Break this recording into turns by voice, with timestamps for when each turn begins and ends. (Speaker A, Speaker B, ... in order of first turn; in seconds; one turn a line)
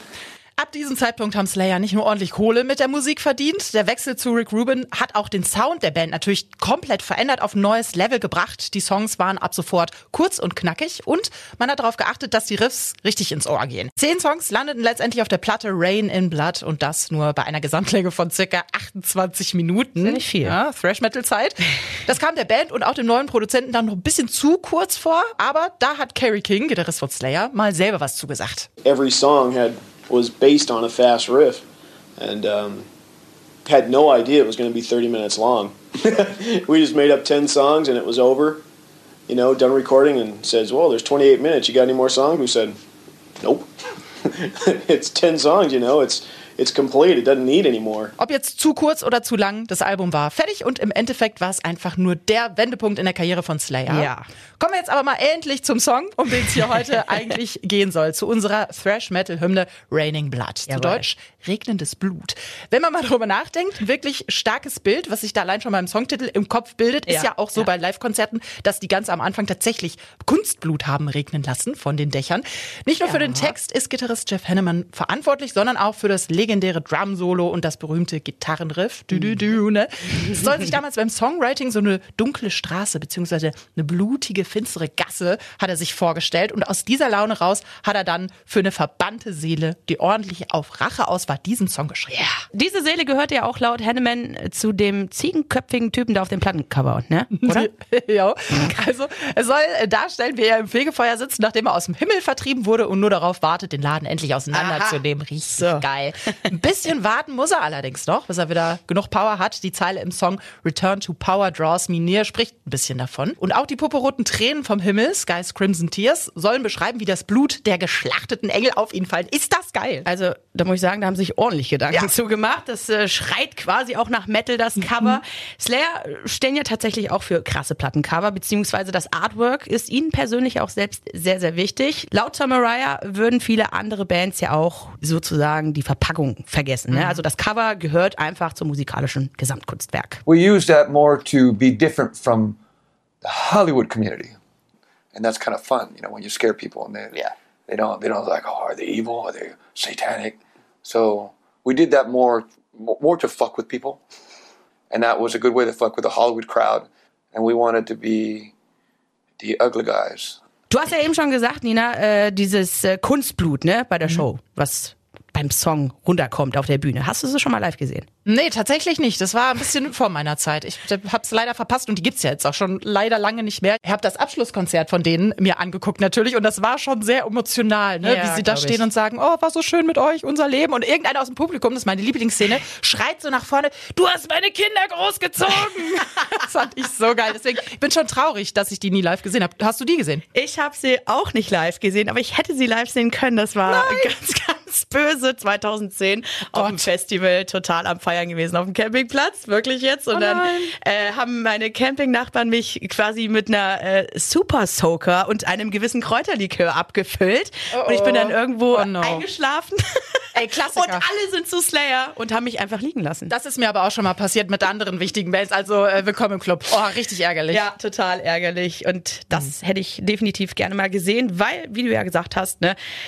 Speaker A: 0.6-28.7
Speaker B: 20.0-20.6
Speaker C: 28.8-31.6
Speaker C: 32.2-32.9
Speaker C: 33.7-38.6
Speaker C: 39.3-42.8
Speaker C: 43.4-43.7
Speaker C: 44.2-48.1
Speaker A: 48.2-92.2
Speaker B: 53.9-54.3
Speaker B: 60.7-61.0
Speaker B: 67.1-67.7
Speaker B: 73.1-73.5
Speaker B: 92.1-97.7
Speaker A: 97.3-120.0
Speaker B: 104.5-105.8
Speaker B: 120.0-140.2
Speaker A: 136.9-137.2
Speaker D: 140.3-142.6
Speaker D: 143.2-144.3
Speaker D: 145.1-154.0
Speaker D: 154.9-158.5
Speaker D: 159.4-160.4
Speaker B: 160.7-168.1
Speaker A: 168.2-190.2
Speaker B: 178.0-178.8
Speaker B: 190.3-213.3
Speaker A: 193.7-194.2
Speaker A: 196.5-196.9
Speaker A: 200.1-200.7
Speaker A: 207.7-209.2
Speaker A: 210.3-211.1
Speaker A: 213.3-217.6
Speaker B: 217.5-222.8